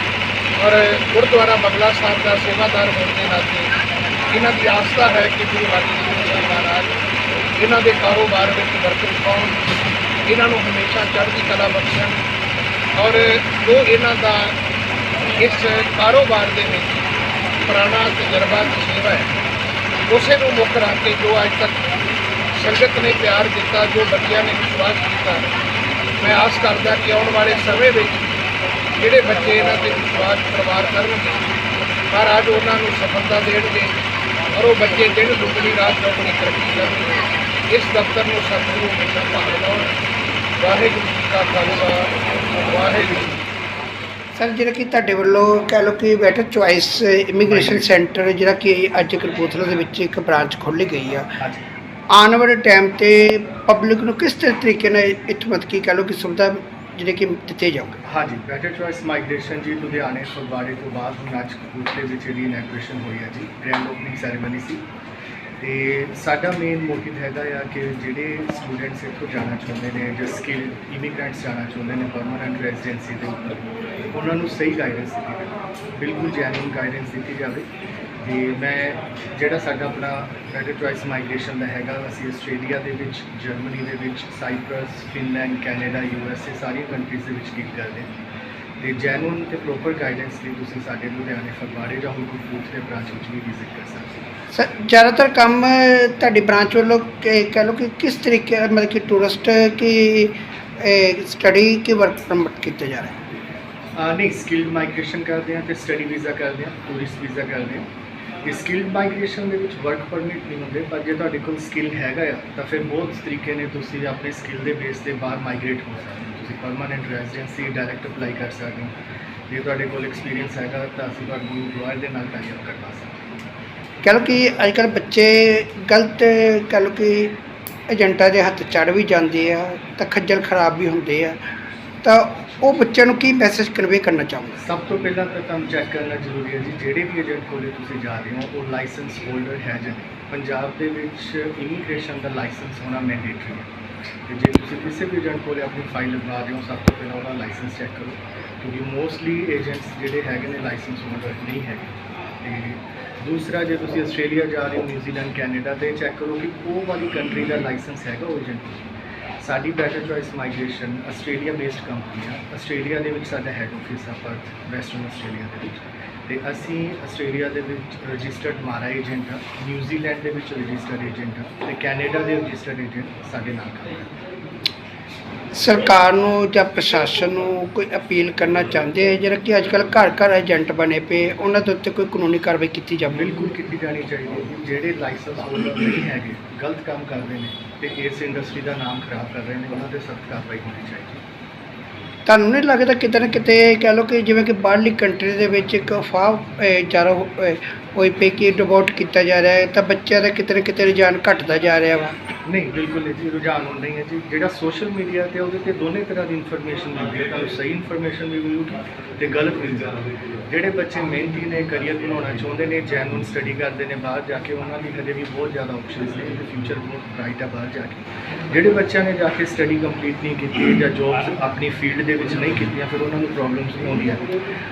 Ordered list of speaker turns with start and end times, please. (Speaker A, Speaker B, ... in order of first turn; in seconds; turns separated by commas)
Speaker A: 0.6-3.7, Speaker A: 4.3-7.0, Speaker A: 7.6-9.6, Speaker A: 10.3-12.2, Speaker A: 13.0-14.6, Speaker A: 15.4-17.0, Speaker A: 17.7-19.3, Speaker A: 20.1-21.9, Speaker A: 22.5-25.5, Speaker A: 26.2-28.4, Speaker A: 29.0-31.5, Speaker A: 32.1-34.0, Speaker A: 34.5-39.9, Speaker A: 40.6-42.1, Speaker A: 42.7-43.4, Speaker B: 44.4-51.3, Speaker C: 47.4-47.9, Speaker C: 51.4-51.6, Speaker B: 52.1-58.0, Speaker C: 58.0-64.8, Speaker C: 65.6-77.7, Speaker C: 78.2-88.1, Speaker C: 88.8-94.2, Speaker B: 94.5-103.2, Speaker C: 104.0-107.9, Speaker C: 108.4-118.9, Speaker C: 119.5-123.2, Speaker B: 124.0-127.4, Speaker B: 127.9-131.4, Speaker B: 132.0-134.6, Speaker C: 134.6-143.7, Speaker C: 144.3-158.9, Speaker C: 159.4-174.1, Speaker B: 175.6-183.5, Speaker C: 183.1-191.2, Speaker B: 192.3-202.2, Speaker C: 202.5-224.3